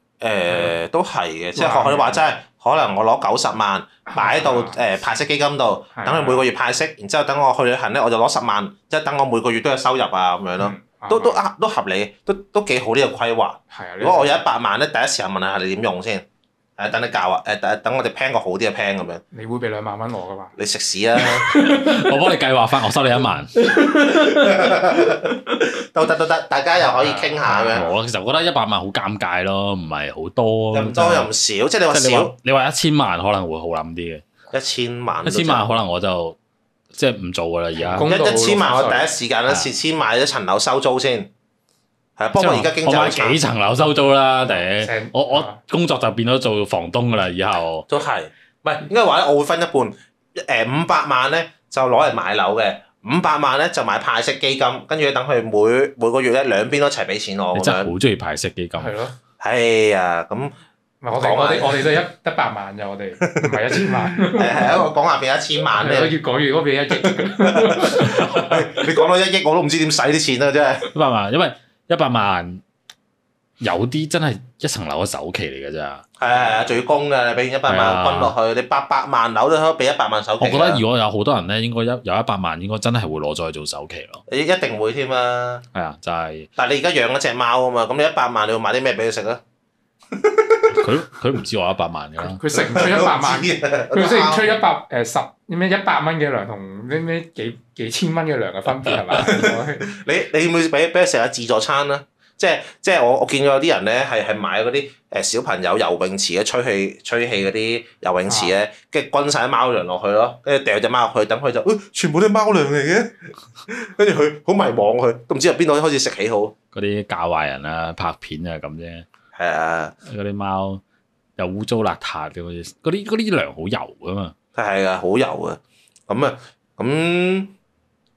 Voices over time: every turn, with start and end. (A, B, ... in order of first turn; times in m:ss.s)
0:00.2-0:16.2 A
0:00.5-0:00.7 B
0:01.5-0:02.2 B
0:04.1-0:04.8 B
0:05.9-0:06.4 B
0:10.6-0:11.4 B
0:13.7-0:14.4 B
0:16.8-0:19.2 A
0:19.3-0:20.5 B
0:20.6-0:21.4 A
0:21.2-0:22.2 B
0:21.5-0:23.5 C
0:23.5-0:25.3 B
0:23.8-0:27.8 A
0:26.8-0:28.0 B
0:27.7-0:31.3 C
0:30.7-0:32.3 A
0:31.9-0:34.2 C
0:34.5-0:35.7 A
0:35.2-0:36.4 C
0:36.9-0:38.1 C
0:37.8-0:39.1 B
0:38.0-0:41.3 A
0:42.2-0:43.4 A
0:42.4-0:47.9 C
0:44.8-0:45.6 B
0:47.9-0:57.9 A
0:57.5-0:59.0 C
0:58.8-0:59.2 B
0:59.4-1:00.5 A
1:01.0-1:04.9 B
1:01.1-1:02.0 A
1:03.2-1:06.1 A
1:05.8-1:08.9 B
1:06.9-1:10.9 A
1:08.0-1:08.6 C
1:10.9-1:12.6 C
1:13.6-1:16.0 C
1:16.2-1:20.8 A
1:17.6-1:18.3 C
1:20.4-1:24.2 C
1:24.3-1:25.6 A
1:25.7-1:26.5 C
1:26.6-1:29.4 A
1:30.2-1:30.8 A
1:30.7-1:32.4 C
1:32.2-1:39.8 B
1:32.6-1:34.6 A
1:38.8-1:39.2 C
1:39.2-1:56.5 A
1:48.3-1:48.5 B
1:56.7-1:59.0 C
1:59.3-1:59.9 A
2:00.0-2:00.8 C
2:01.4-2:04.3 C
2:04.5-2:07.5 A